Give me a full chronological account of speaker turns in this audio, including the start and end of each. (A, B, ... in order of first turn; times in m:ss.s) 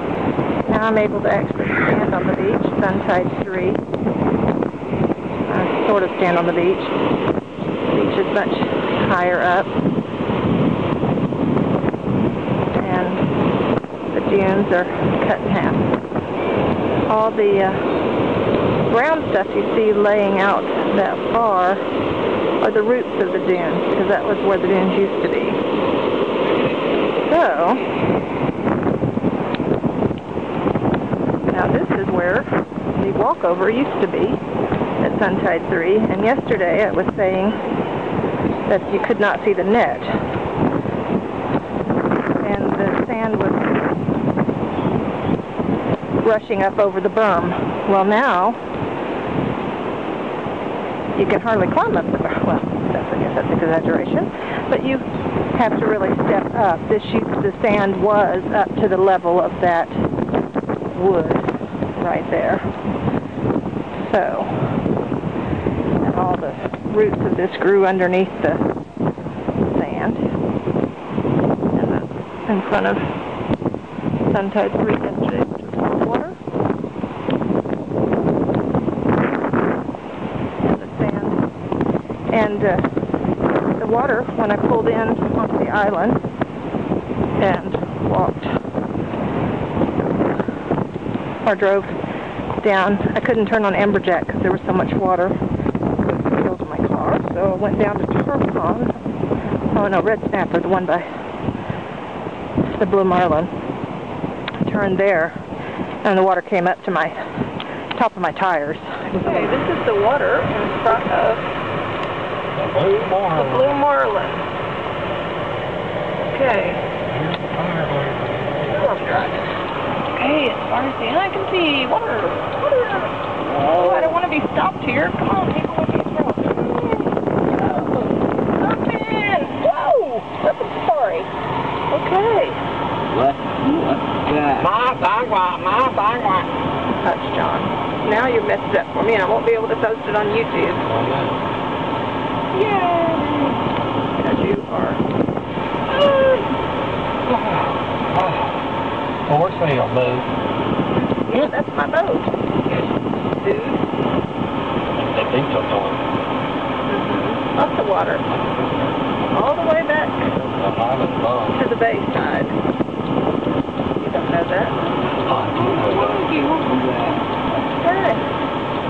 0:00.6-0:03.8 A
0:05.4-0:06.9 A
0:07.9-0:09.7 A
0:12.7-0:13.2 A
0:14.1-0:15.9 A
0:17.1-0:17.9 A
0:18.8-0:21.8 A
0:22.6-0:25.6 A
0:27.1-0:27.8 A
0:31.5-0:34.4 A
0:35.0-0:37.6 A
0:38.7-0:40.2 A
0:42.4-0:43.8 A
0:46.2-0:48.6 A
0:51.1-0:59.9 A
1:00.9-1:02.7 A
1:04.0-1:04.7 A
1:06.0-1:08.6 A
1:09.6-1:10.2 A
1:11.7-1:13.0 A
1:14.3-1:16.4 A
1:20.6-1:21.4 A
1:22.3-1:22.8 A
1:23.8-1:26.2 A
1:27.4-1:28.6 A
1:31.4-1:32.0 A
1:32.5-1:35.4 A
1:36.0-1:38.9 A
1:39.7-1:41.1 A
1:42.7-1:43.5 A
1:44.6-1:45.4 A
1:46.0-1:47.2 A
1:47.9-1:51.4 A
1:52.5-1:53.8 B
1:53.4-1:54.4 A
1:56.3-1:56.8 A
1:57.1-1:59.0 B
1:58.7-1:59.4 A
2:00.2-2:11.3 A
2:11.9-2:12.6 A
2:13.1-2:14.7 C
2:14.5-2:16.5 B
2:16.9-2:20.8 A
2:20.8-2:21.4 B
2:22.5-2:23.6 A
2:24.1-2:25.0 A
2:25.9-2:26.5 A
2:27.2-2:28.6 B
2:29.2-2:30.3 B
2:31.3-2:32.3 A
2:33.4-2:33.8 A
2:34.9-2:36.1 B
2:36.9-2:38.2 A
2:38.2-2:39.0 B
2:39.3-2:40.2 A
2:40.3-2:41.6 B
2:41.6-2:42.5 A
2:44.0-2:44.7 A
2:45.2-2:46.4 B
2:45.5-2:47.2 C
2:47.5-2:48.2 A